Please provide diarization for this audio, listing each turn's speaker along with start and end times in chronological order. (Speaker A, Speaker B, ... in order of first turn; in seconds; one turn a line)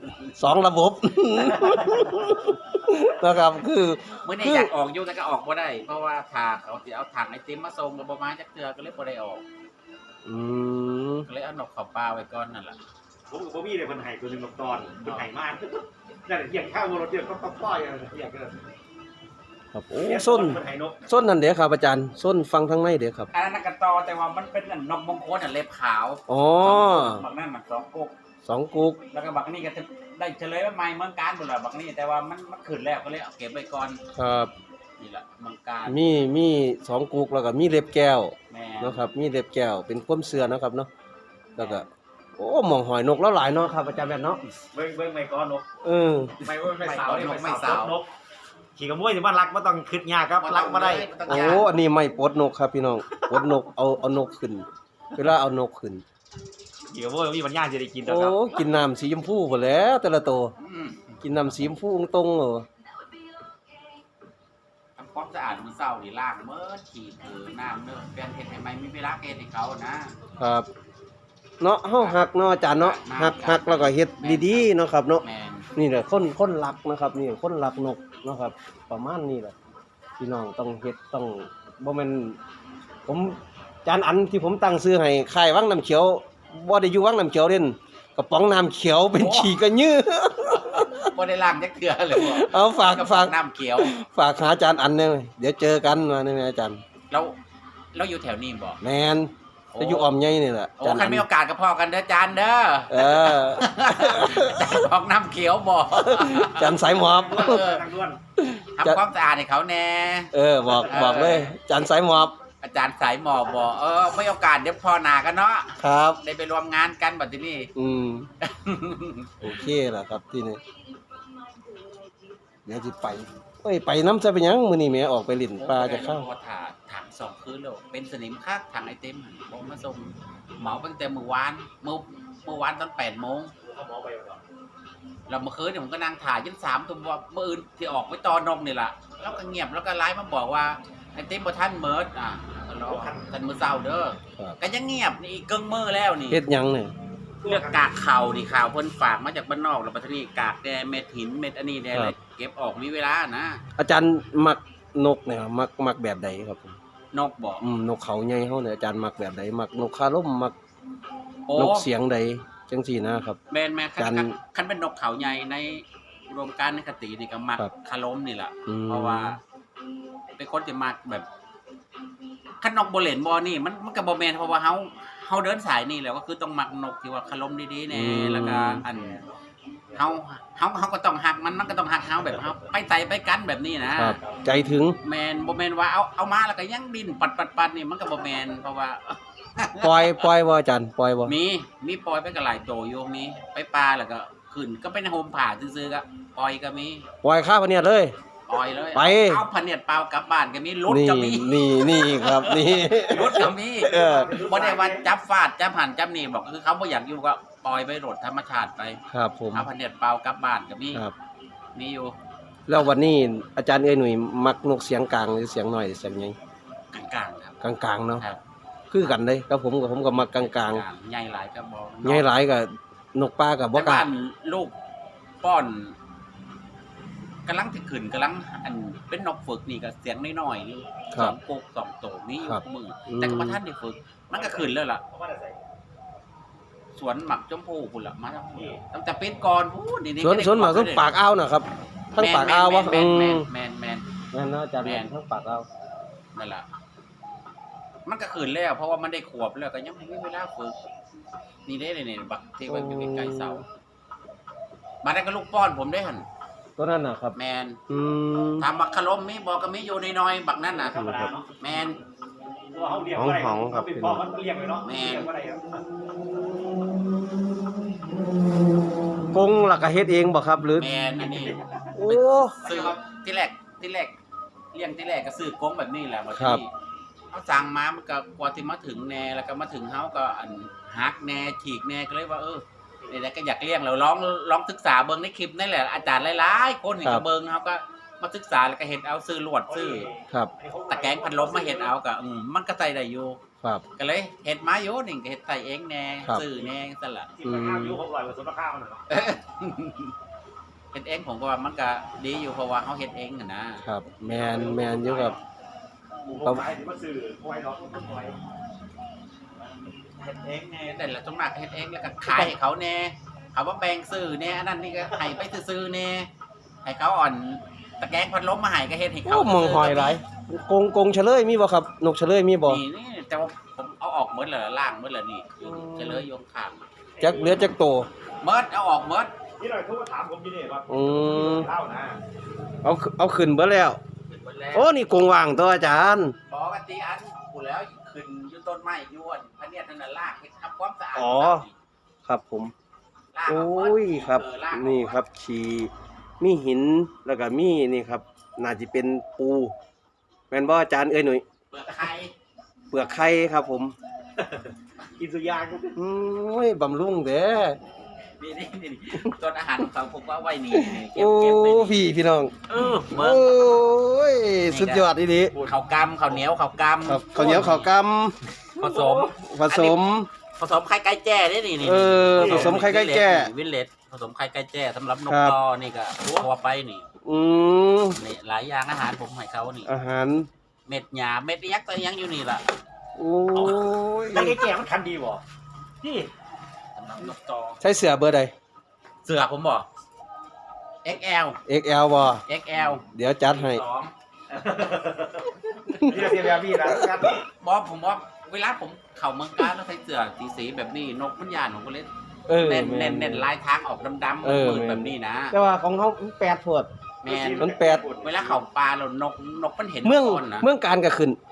Speaker A: 0.3-4.7
Speaker B: 1.6-2.4
Speaker C: 4.2-9.4
Speaker A: 10.2-11.3
Speaker C: 11.3-12.8
Speaker B: 13.3-18.6
Speaker A: 19.7-23.3
Speaker B: 20.0-21.0
Speaker C: 23.3-28.1
Speaker A: 26.3-27.2
Speaker A: 28.4-29.0
Speaker C: 29.1-34.0
Speaker A: 34.1-34.5
Speaker C: 35.0-36.0
Speaker A: 35.9-40.9
Speaker C: 38.5-39.0
Speaker A: 41.6-41.9
Speaker C: 41.6-41.8
Speaker A: 42.4-44.4
Speaker B: 44.7-45.6
Speaker A: 45.8-46.4
Speaker C: 46.4-48.0
Speaker B: 46.5-48.1
Speaker B: 48.8-51.1
Speaker C: 50.4-51.7
Speaker A: 51.3-56.0
Speaker B: 53.1-53.5
Speaker B: 56.9-58.4
Speaker A: 58.0-60.5
Speaker C: 60.6-61.2
Speaker A: 61.2-62.7
Speaker C: 65.0-70.2
Speaker A: 70.4-70.7
Speaker A: 71.6-75.2
Speaker C: 72.0-74.7
Speaker C: 75.2-75.7
Speaker A: 75.8-79.5
Speaker A: 80.2-82.4
Speaker A: 83.0-91.1
Speaker C: 89.2-89.6
Speaker C: 90.5-93.9
Speaker A: 92.1-96.8
Speaker C: 97.1-97.4
Speaker C: 97.9-98.8
Speaker A: 98.8-101.3
Speaker C: 99.7-100.1
Speaker C: 100.8-107.8
Speaker A: 102.9-104.9
Speaker A: 106.0-107.7
Speaker B: 106.8-108.2
Speaker A: 108.4-109.0
Speaker C: 108.8-111.5
Speaker A: 110.3-112.4
Speaker C: 112.6-117.7
Speaker A: 115.8-116.2
Speaker A: 117.8-118.3
Speaker C: 118.4-119.3
Speaker A: 119.4-120.6
Speaker A: 122.7-126.3
Speaker C: 125.6-133.5
Speaker B: 133.6-134.4
Speaker C: 135.3-146.4
Speaker B: 142.8-143.3
Speaker A: 146.3-146.9
Speaker B: 147.4-147.9
Speaker C: 147.4-153.6
Speaker A: 153.8-156.8
Speaker C: 157.1-157.6
Speaker A: 157.6-160.6
Speaker C: 161.5-161.9
Speaker A: 161.6-163.4
Speaker C: 163.5-169.4
Speaker A: 164.0-164.3
Speaker A: 168.7-169.4
Speaker C: 170.4-171.3
Speaker C: 172.6-179.2
Speaker A: 177.9-178.8
Speaker B: 178.8-180.2
Speaker C: 179.9-184.2
Speaker B: 182.2-182.8
Speaker A: 184.0-185.0
Speaker C: 185.0-190.3
Speaker A: 189.8-191.3
Speaker C: 191.3-197.1
Speaker A: 197.2-198.1
Speaker C: 198.5-211.0
Speaker A: 198.9-199.4
Speaker A: 200.9-204.3
Speaker B: 203.2-205.1
Speaker A: 209.1-209.7
Speaker C: 211.8-212.2
Speaker A: 212.7-216.4
Speaker C: 216.9-217.6
Speaker A: 217.6-218.2
Speaker A: 218.9-220.8
Speaker C: 220.2-222.3
Speaker A: 222.0-224.1
Speaker C: 223.7-224.7
Speaker C: 225.4-226.0
Speaker C: 227.5-235.0
Speaker A: 232.4-233.6
Speaker B: 234.3-235.6
Speaker C: 237.0-241.1
Speaker B: 238.6-238.8
Speaker A: 240.2-243.5
Speaker C: 242.2-244.1
Speaker A: 244.3-245.7
Speaker C: 244.8-245.1
Speaker C: 246.3-246.7
Speaker C: 248.1-250.8
Speaker C: 251.7-253.6
Speaker A: 252.7-253.6
Speaker C: 255.0-256.3
Speaker A: 256.8-257.4
Speaker C: 257.4-257.8
Speaker A: 257.9-258.7
Speaker C: 258.6-262.0
Speaker B: 260.9-261.5
Speaker A: 260.9-261.3
Speaker B: 262.7-265.8
Speaker A: 263.2-264.2
Speaker C: 264.8-265.3
Speaker A: 266.4-267.1
Speaker A: 269.3-270.9
Speaker C: 270.8-274.1
Speaker B: 271.2-271.9
Speaker A: 272.0-272.6
Speaker B: 272.6-273.0
Speaker C: 274.7-276.7
Speaker A: 276.4-276.6
Speaker C: 277.3-290.1
Speaker B: 289.7-291.9
Speaker C: 290.9-293.4
Speaker C: 294.0-297.3
Speaker B: 297.4-299.1
Speaker A: 297.4-298.0
Speaker C: 299.1-300.1
Speaker C: 300.9-303.8
Speaker A: 303.8-305.4
Speaker B: 304.3-305.4
Speaker B: 306.3-308.4
Speaker B: 310.1-310.8
Speaker C: 310.6-316.3
Speaker C: 316.9-320.2
Speaker A: 319.2-322.8
Speaker C: 322.7-326.8
Speaker A: 325.6-326.2
Speaker B: 327.2-327.6
Speaker A: 327.2-328.1
Speaker C: 328.4-329.3
Speaker B: 329.6-332.2
Speaker A: 330.9-331.7
Speaker A: 332.8-334.0
Speaker C: 334.3-334.9
Speaker A: 334.7-336.4
Speaker C: 336.5-341.7
Speaker A: 341.1-341.6
Speaker A: 342.2-342.7
Speaker C: 343.3-345.2
Speaker A: 343.5-349.7
Speaker A: 350.5-351.4
Speaker C: 351.7-352.3
Speaker A: 352.9-353.9
Speaker B: 354.4-356.0
Speaker A: 355.9-357.8
Speaker C: 358.4-362.0
Speaker A: 360.7-365.6
Speaker C: 362.7-363.6
Speaker C: 364.7-365.1
Speaker B: 365.5-366.4
Speaker C: 365.6-367.9
Speaker A: 367.1-370.3
Speaker C: 368.8-370.0
Speaker B: 368.9-369.2
Speaker C: 370.6-377.1
Speaker A: 371.8-373.5
Speaker B: 372.4-372.8
Speaker A: 375.3-375.6
Speaker A: 377.2-378.2
Speaker C: 378.1-379.9
Speaker A: 379.9-380.5
Speaker C: 380.9-382.7
Speaker A: 383.2-384.6
Speaker B: 383.5-385.4
Speaker B: 386.0-386.3
Speaker C: 387.0-387.8
Speaker A: 387.8-388.5
Speaker C: 389.2-389.9
Speaker C: 391.0-391.6
Speaker A: 391.7-392.4
Speaker C: 392.5-394.1
Speaker A: 393.1-393.8
Speaker B: 394.5-397.4
Speaker A: 395.9-397.4
Speaker C: 397.6-405.6
Speaker A: 402.5-403.5
Speaker A: 404.4-406.9
Speaker C: 407.2-407.7
Speaker B: 407.2-408.6
Speaker A: 407.6-408.1
Speaker C: 408.2-410.7
Speaker A: 410.0-411.4